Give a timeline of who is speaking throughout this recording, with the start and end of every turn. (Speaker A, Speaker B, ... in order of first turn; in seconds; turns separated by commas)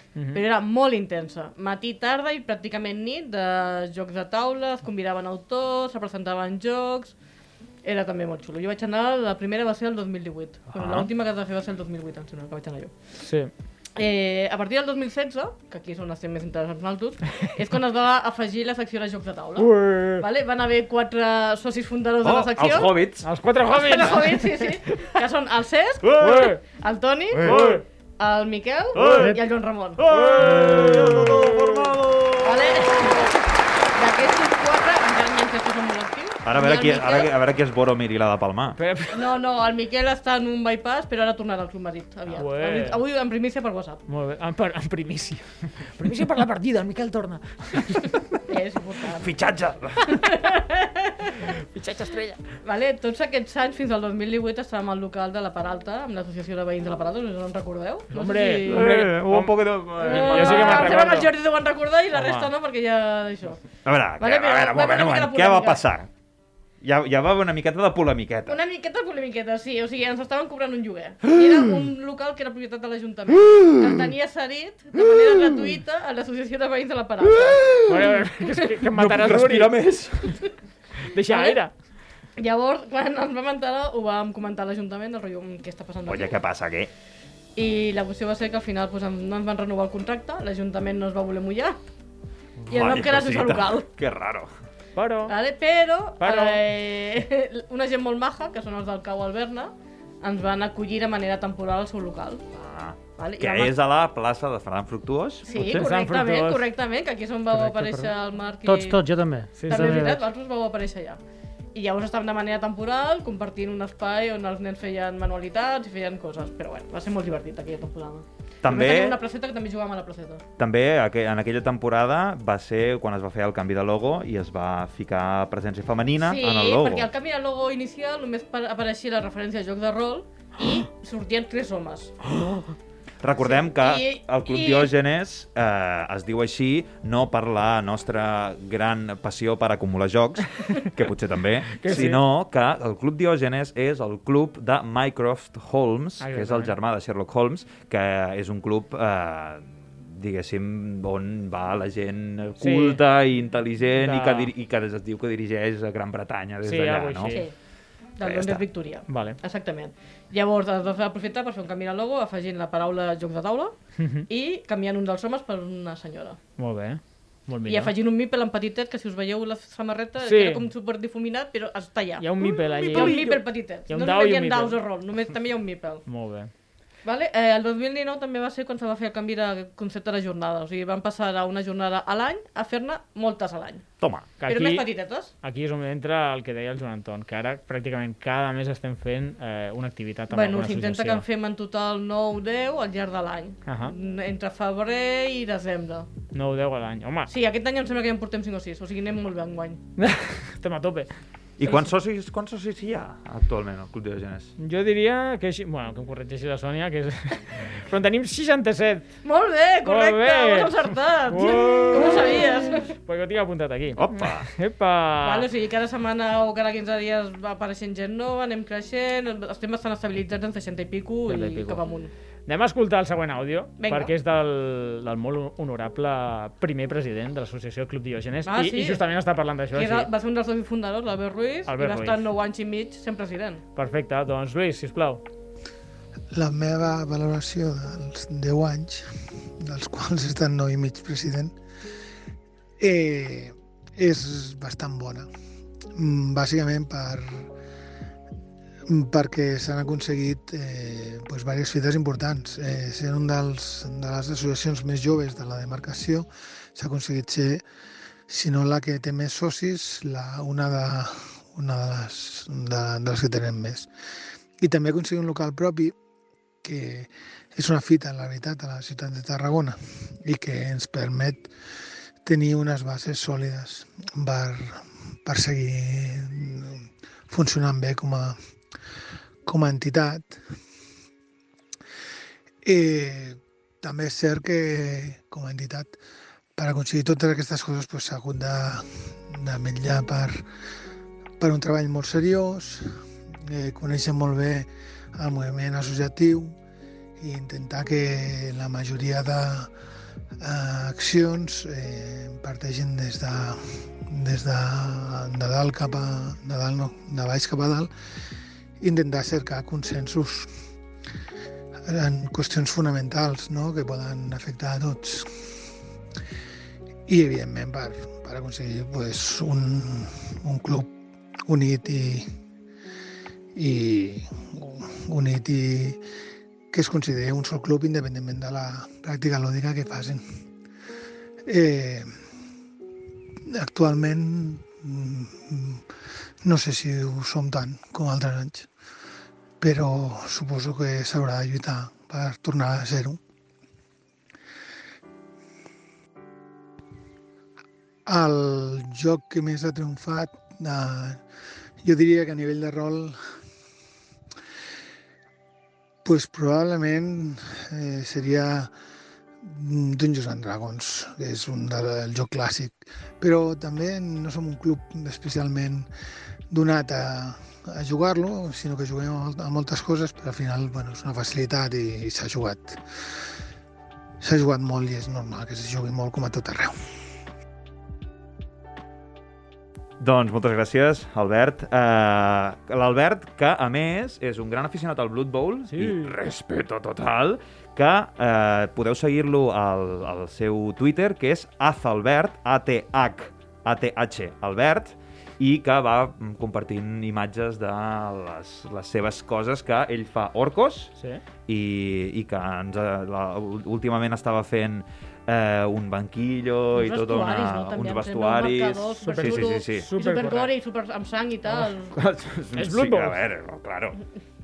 Speaker A: 0.1-0.4, Speaker B: 0.3-7.1, Speaker B: 7.8-12.9, Speaker C: 10.7-11.1, Speaker A: 13.2-13.5, Speaker B: 14.0-23.0, Speaker A: 19.6-20.2, Speaker C: 22.2-23.3, Speaker A: 23.2-24.5, Speaker B: 23.7-27.7, Speaker C: 26.0-26.5, Speaker A: 26.2-26.6, Speaker C: 27.4-27.8, Speaker A: 27.4-27.8, Speaker B: 28.2-30.0, Speaker C: 28.9-29.4, Speaker C: 30.0-33.3, Speaker A: 30.1-31.6, Speaker B: 32.4-33.4, Speaker B: 34.0-37.3, Speaker C: 36.4-38.8, Speaker A: 38.8-39.2, Speaker B: 39.1-44.0, Speaker A: 42.4-43.0, Speaker A: 44.1-48.1, Speaker B: 48.5-49.3, Speaker C: 49.1-50.3, Speaker B: 50.1-51.4, Speaker A: 51.5-52.4, Speaker B: 52.6-58.9, Speaker A: 58.1-61.3, Speaker C: 58.6-61.2, Speaker B: 60.0-63.6, Speaker A: 62.1-62.5, Speaker C: 63.8-66.1, Speaker B: 64.2-65.8, Speaker C: 66.8-68.6, Speaker B: 68.5-77.7, Speaker C: 73.4-73.9, Speaker C: 74.9-75.6, Speaker C: 77.2-78.1, Speaker A: 77.8-79.7, Speaker C: 78.9-80.4, Speaker A: 81.1-81.7, Speaker B: 81.3-81.6, Speaker B: 82.4-86.4, Speaker C: 86.0-86.9, Speaker B: 87.5-91.8, Speaker C: 92.7-94.5, Speaker B: 92.7-93.9, Speaker A: 95.0-95.3, Speaker B: 95.3-102.4, Speaker A: 96.2-96.6, Speaker C: 102.5-105.5, Speaker B: 103.2-103.7, Speaker B: 105.5-109.0, Speaker A: 105.5-106.7, Speaker D: 107.5-108.1, Speaker D: 108.6-110.2, Speaker A: 109.6-110.1, Speaker B: 109.6-111.2, Speaker B: 111.7-120.4, Speaker C: 118.6-119.2, Speaker C: 120.6-127.1, Speaker B: 126.2-132.1, Speaker C: 133.2-157.4, Speaker B: 133.4-134.9, Speaker A: 141.8-142.2, Speaker A: 146.2-146.7, Speaker A: 152.6-153.0, Speaker A: 154.0-154.5, Speaker A: 156.6-157.4, Speaker B: 157.3-157.5, Speaker B: 158.2-163.7, Speaker C: 158.2-158.6, Speaker A: 159.1-159.4, Speaker A: 164.0-164.2, Speaker B: 164.3-166.4, Speaker A: 166.6-167.9, Speaker B: 167.7-176.0, Speaker A: 170.2-170.6, Speaker A: 172.2-174.8, Speaker A: 176.1-176.5, Speaker B: 177.0-183.8, Speaker C: 184.0-184.3, Speaker A: 184.4-184.9, Speaker B: 184.4-185.3, Speaker A: 185.4-191.2, Speaker B: 190.3-196.1, Speaker A: 193.7-193.9, Speaker A: 196.3-197.3, Speaker B: 197.3-199.8, Speaker A: 200.0-201.1, Speaker C: 201.6-204.5, Speaker A: 204.6-209.1, Speaker B: 209.2-212.9, Speaker A: 209.8-210.7, Speaker A: 211.3-215.4, Speaker C: 214.0-214.5, Speaker B: 215.2-222.1, Speaker A: 221.3-221.8, Speaker A: 222.5-230.1, Speaker B: 223.8-224.1, Speaker B: 228.4-229.0, Speaker B: 229.7-233.6, Speaker A: 231.7-232.2, Speaker A: 233.8-235.2, Speaker E: 236.3-239.1, Speaker E: 239.6-241.5, Speaker E: 242.8-245.3, Speaker E: 245.9-247.5, Speaker E: 248.9-257.6, Speaker E: 258.3-263.9, Speaker E: 264.6-265.9, Speaker E: 266.6-271.5, Speaker E: 272.2-278.4, Speaker E: 279.4-280.4, Speaker E: 282.6-285.9, Speaker E: 286.6-290.4, Speaker E: 291.4-292.9, Speaker E: 293.4-296.6, Speaker E: 297.2-299.7, Speaker E: 300.4-307.9, Speaker E: 308.8-310.5, Speaker E: 311.9-315.5, Speaker E: 317.1-320.9, Speaker E: 321.4-322.3, Speaker E: 323.5-326.0, Speaker E: 326.7-330.2, Speaker E: 331.4-332.1, Speaker E: 333.5-335.8, Speaker E: 336.4-338.7, Speaker E: 339.6-343.2, Speaker E: 348.1-351.2, Speaker E: 351.8-353.2, Speaker E: 356.0-358.7, Speaker E: 359.4-365.9, Speaker E: 366.5-372.8, Speaker E: 374.2-376.7, Speaker C: 380.0-400.9, Speaker A: 385.7-386.1, Speaker C: 401.5-409.9, Speaker B: 406.7-411.9, Speaker A: 409.0-410.5, Speaker C: 411.9-414.0, Speaker A: 412.6-413.2